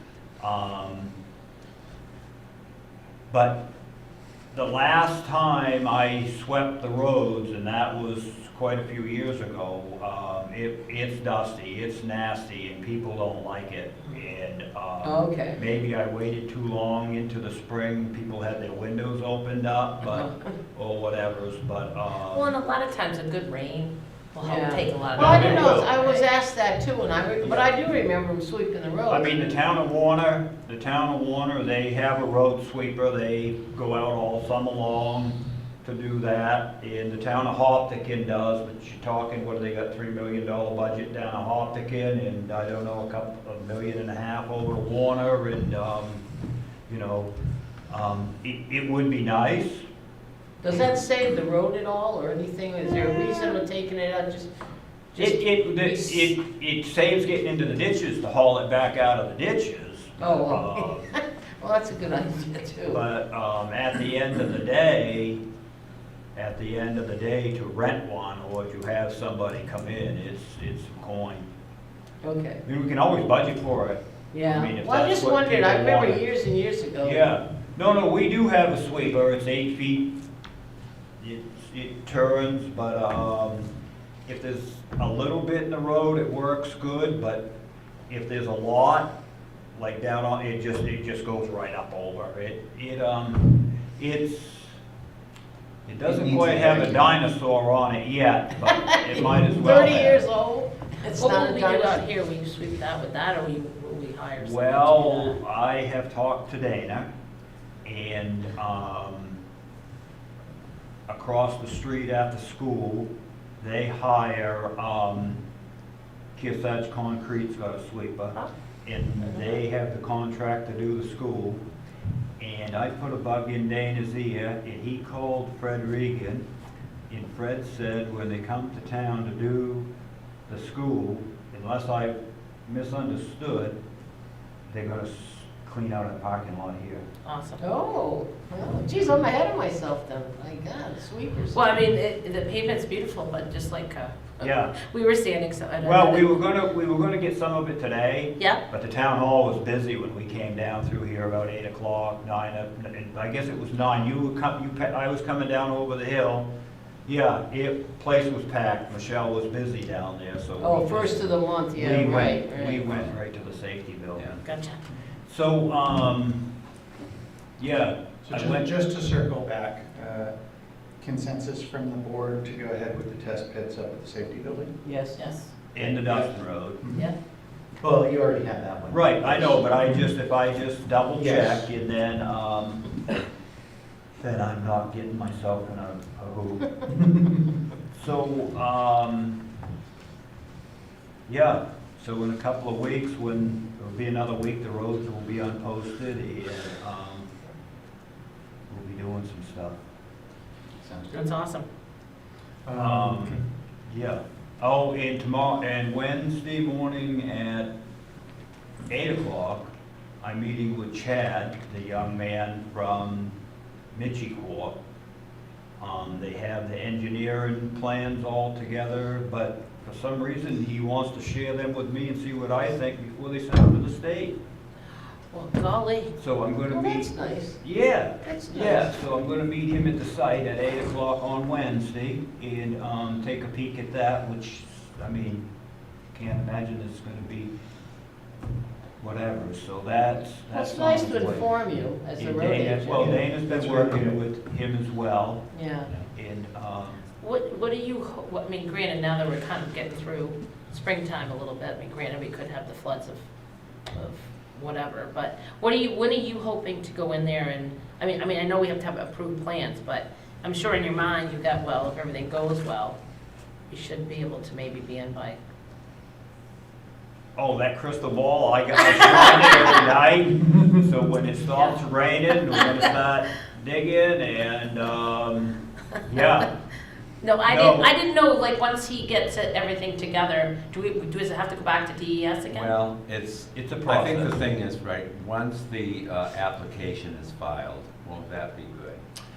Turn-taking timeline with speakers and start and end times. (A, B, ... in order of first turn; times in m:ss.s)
0:00.4-0:01.1 A
0:03.3-0:03.7 A
0:04.5-0:22.5 A
0:15.0-0:15.6 B
0:22.2-0:26.3 C
0:24.4-0:29.5 B
0:25.1-0:25.9 A
0:27.4-0:27.7 A
0:29.1-0:46.2 A
0:46.9-0:47.3 A
0:47.9-0:49.9 A
0:50.6-0:54.5 B
0:55.1-0:56.3 B
0:55.2-1:01.1 A
1:00.2-1:03.0 B
1:02.9-1:05.4 A
1:06.4-1:11.5 A
1:12.2-1:12.6 B
1:12.6-1:16.3 A
1:14.3-1:17.2 B
1:17.0-1:20.1 A
1:21.2-1:23.7 A
1:24.3-1:27.5 A
1:28.1-1:29.1 A
1:29.8-1:34.8 A
1:35.9-1:40.2 A
1:36.1-1:37.1 D
1:38.9-1:42.0 B
1:41.1-1:45.4 C
1:44.4-1:47.1 A
1:47.8-1:49.4 A
1:51.1-1:53.1 A
1:53.6-1:55.4 A
1:56.4-2:01.6 A
1:59.2-1:59.5 C
2:02.4-2:06.5 A
2:07.1-2:09.9 A
2:10.5-2:13.8 A
2:14.7-2:17.1 A
2:17.2-2:17.6 C
2:17.6-2:21.6 B
2:21.5-2:26.2 C
2:24.4-2:24.7 A
2:25.8-2:36.5 A
2:37.1-2:44.4 A
2:40.6-2:43.0 B
2:44.4-2:44.8 C
2:45.3-2:46.4 A
2:47.6-2:48.7 A
2:48.2-2:50.3 D
2:51.0-2:54.8 D
2:54.8-2:55.2 B
2:55.2-2:55.5 C
2:55.7-2:56.8 A
2:55.8-2:57.0 D
2:57.8-3:00.1 D
2:58.9-3:02.9 A
3:01.2-3:01.7 D
3:04.2-3:07.4 A
3:07.9-3:09.4 A
3:11.3-3:17.3 A
3:18.7-3:19.8 A
3:20.8-3:21.3 D
3:21.1-3:21.7 C
3:22.7-3:23.4 D
3:22.8-3:27.7 A
3:28.9-3:29.7 A
3:30.2-3:33.4 A
3:33.9-3:34.8 A
3:35.8-3:44.4 A
3:45.3-3:46.1 C
3:46.2-3:55.5 A
3:46.7-3:47.6 B
3:48.2-3:48.9 B
3:56.1-3:57.5 A
3:59.0-4:01.5 A
4:00.5-4:03.2 B
4:02.2-4:07.0 A
4:03.0-4:04.2 D
4:05.5-4:05.9 B
4:07.2-4:13.2 C
4:13.9-4:23.0 C
4:23.7-4:25.4 C
4:27.4-4:36.5 A
4:28.8-4:29.8 C
4:37.2-4:42.7 C
4:37.4-4:37.9 A
4:42.5-4:49.0 E
4:43.5-4:44.5 A